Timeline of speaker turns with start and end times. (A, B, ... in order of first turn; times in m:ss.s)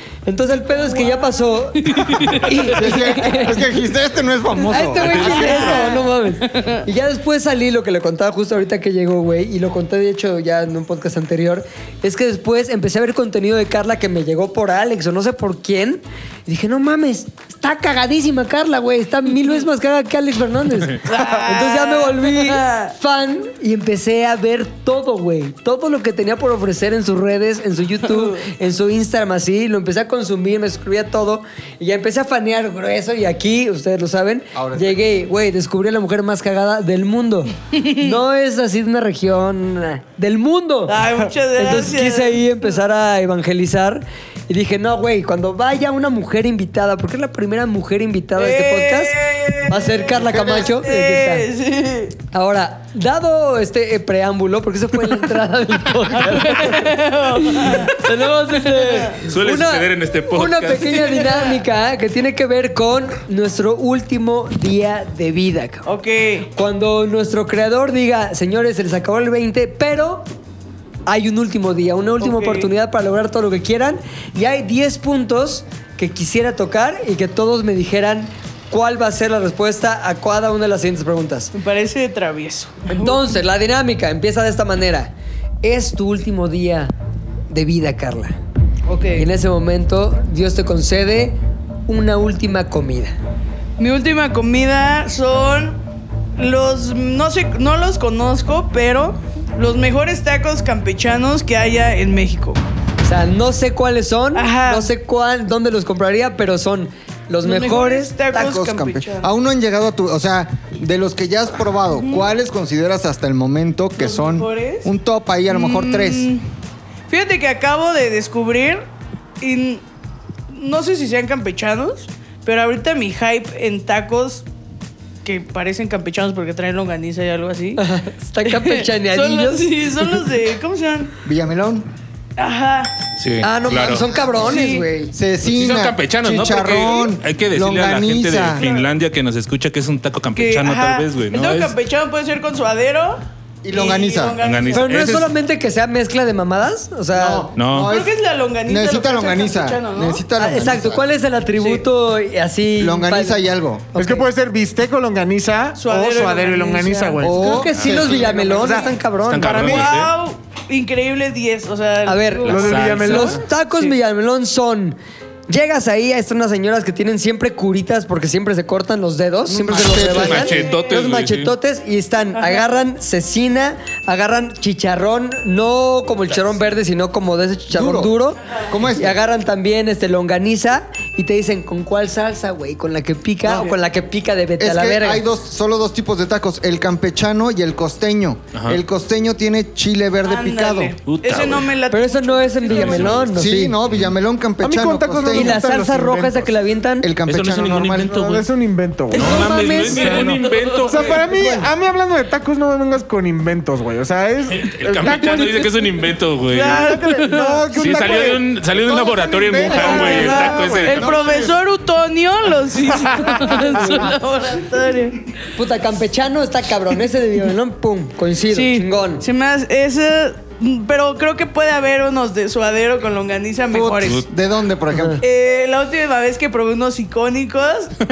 0:00.3-0:03.6 A
0:00.7-0:03.4 B
0:02.7-0:05.8 C
0:04.6-0:51.5 A
0:05.0-0:05.8 D
0:05.2-0:06.8 B
0:21.0-0:23.0 B
0:28.0-0:28.4 B
0:34.5-0:35.0 C
0:37.7-0:38.2 B
0:40.9-0:42.4 B
0:48.4-0:52.2 B
0:50.2-0:50.7 C
0:52.3-0:56.9 A
0:56.2-0:59.2 B
0:57.5-1:05.9 A
0:59.2-1:01.2 D
1:01.2-1:01.4 B
1:05.8-1:06.5 B
1:06.6-1:10.2 A
1:11.1-1:21.5 A
1:12.2-1:12.7 B
1:21.5-1:23.4 B
1:22.9-1:25.1 A
1:25.6-1:26.9 A
1:27.5-1:28.4 A
1:28.9-1:29.3 B
1:29.1-1:33.2 A
1:33.8-1:35.8 B
1:36.4-1:42.6 B
1:43.0-1:48.4 A
1:44.4-1:44.9 B
1:47.4-1:49.3 B
1:48.3-1:56.3 C
1:52.0-1:52.3 B
1:54.0-1:54.9 B
1:55.5-1:56.5 B
1:57.1-1:58.9 B
1:59.4-1:59.8 B
2:00.5-2:04.5 B
2:05.2-2:07.8 B
2:07.8-2:10.1 A
2:08.5-2:11.1 B
2:11.2-2:11.9 C
2:12.4-2:12.9 B
2:13.2-2:14.1 D
2:13.4-2:15.1 A
2:14.1-2:14.5 C
2:14.4-2:14.9 B
2:15.1-2:18.6 C
2:15.4-2:21.8 D
2:18.6-2:18.9 B
2:20.4-2:24.9 B
2:23.6-2:24.4 C
2:24.4-2:25.3 D
2:24.7-2:27.5 A
2:27.1-2:28.1 C
2:27.6-2:28.0 D
2:27.8-2:30.2 B
2:28.6-2:31.1 C
2:30.4-2:33.4 A
2:31.6-2:31.8 B
2:32.8-2:34.0 C
2:34.0-2:34.3 A
2:34.0-2:37.6 E
2:35.8-2:38.8 B
2:37.2-2:38.6 C
2:37.4-2:39.8 A
2:37.8-2:38.2 D
2:38.6-2:38.9 E
2:39.2-2:40.1 D
2:39.4-2:43.9 B
2:42.0-2:45.0 A
2:42.4-2:43.4 D
2:42.5-2:43.4 E
2:45.5-3:05.2 A
2:49.5-2:50.7 C
2:49.8-2:51.5 D
2:50.3-2:51.1 B
2:52.3-2:52.7 B
2:57.7-2:59.2 C
3:04.6-3:11.0 C
3:08.5-3:08.8 D
3:10.2-3:13.3 B
3:11.1-3:11.7 D
3:11.9-3:13.8 A
3:12.7-3:13.4 D
3:13.4-3:15.6 C
3:14.6-3:16.6 E
3:15.3-3:17.1 A
3:17.0-3:18.4 C
3:17.3-3:18.5 D
3:18.1-3:25.7 E
3:19.1-3:21.3 D
3:19.1-3:21.4 B
3:21.3-3:21.7 A
3:24.5-3:27.0 D
3:25.3-3:25.6 B
3:26.5-3:27.6 B
3:26.6-3:28.6 E
3:27.7-3:31.5 D
3:28.8-3:30.8 C
3:29.4-3:31.3 E
3:29.6-3:35.3 B
3:32.9-3:34.0 E
3:33.7-3:34.1 A
3:35.6-3:39.2 A
3:38.5-3:44.2 B
3:43.7-3:45.2 C
3:44.9-3:45.2 A
3:45.2-3:48.0 B